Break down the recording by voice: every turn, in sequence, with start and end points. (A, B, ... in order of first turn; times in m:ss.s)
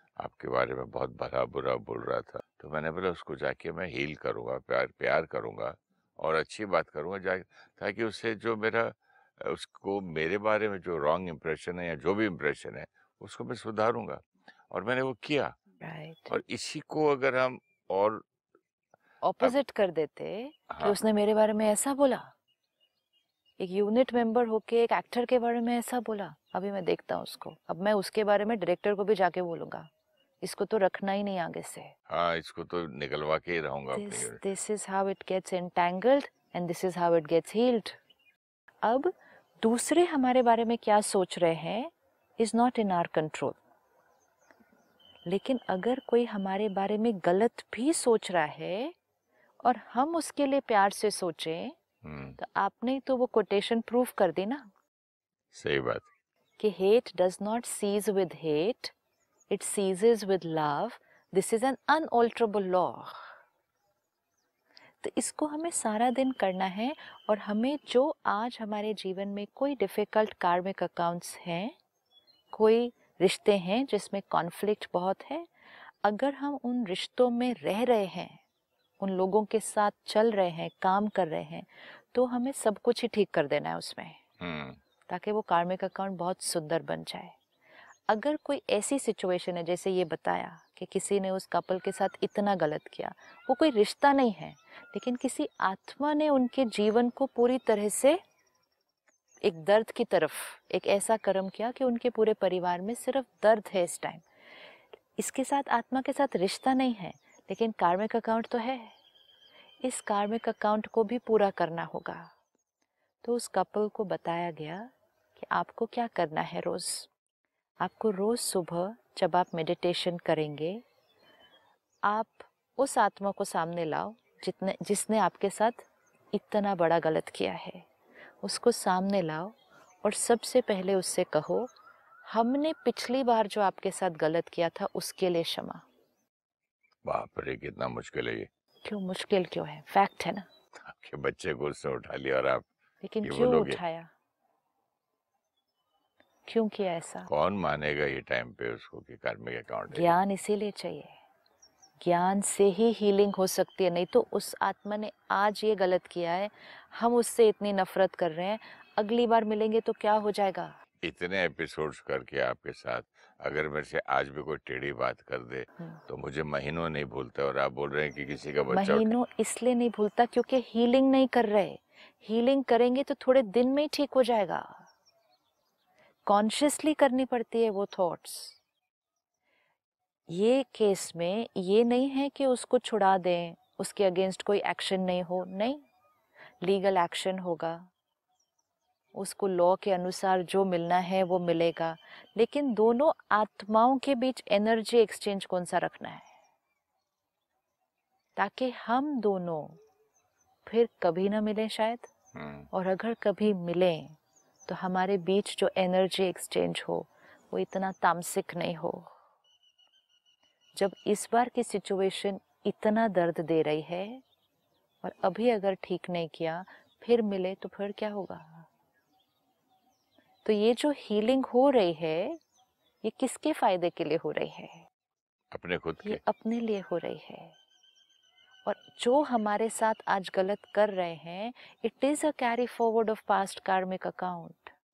0:00.2-0:15.6 A
0:15.8-0:16.3 B
0:16.3-0:18.2 A
0:19.2-0:22.3 B
0:20.7-0:21.0 A
0:23.6-0:29.9 B
0:30.4-0:31.9 B
0:32.1-0:34.4 A
0:33.9-0:38.0 B
0:38.8-0:43.6 B
0:45.3-0:49.0 B
0:49.6-0:51.8 B
0:52.0-0:52.4 A
0:52.4-0:54.7 B
0:55.5-0:56.1 A
0:56.6-0:59.0 B
0:59.5-1:03.3 B
1:05.0-1:11.8 B
1:12.5-1:15.5 B
1:16.0-1:18.4 B
1:19.0-1:24.2 B
1:24.4-1:24.8 A
1:25.1-1:27.4 B
1:28.1-1:38.2 B
1:39.4-1:44.2 B
1:45.2-1:48.9 B
1:49.8-1:52.3 B
1:53.2-1:57.1 B
1:57.8-2:00.8 B
2:02.0-2:07.9 B
2:08.4-2:11.7 B
2:12.3-2:15.8 B
2:17.0-2:18.5 A
2:18.8-2:20.5 B
2:20.8-2:22.7 A
2:23.0-2:24.1 B
2:23.2-2:23.8 A
2:26.5-2:27.3 B
2:27.3-2:30.1 A
2:29.9-2:31.2 B
2:32.0-2:40.8 B
2:41.0-2:49.2 A
2:48.7-2:54.9 B
2:56.3-2:58.6 B
3:00.3-3:05.8 B
3:06.6-3:07.9 B
3:09.2-3:16.3 B
3:18.4-3:19.8 B
3:20.6-3:22.1 B
3:22.3-3:22.7 A
3:22.7-3:29.1 B
3:30.8-3:34.2 B
3:35.0-3:38.7 B
3:40.4-3:42.4 B
3:43.0-3:44.9 B
3:45.5-3:46.2 A
3:46.0-3:47.6 B
3:48.6-3:54.7 B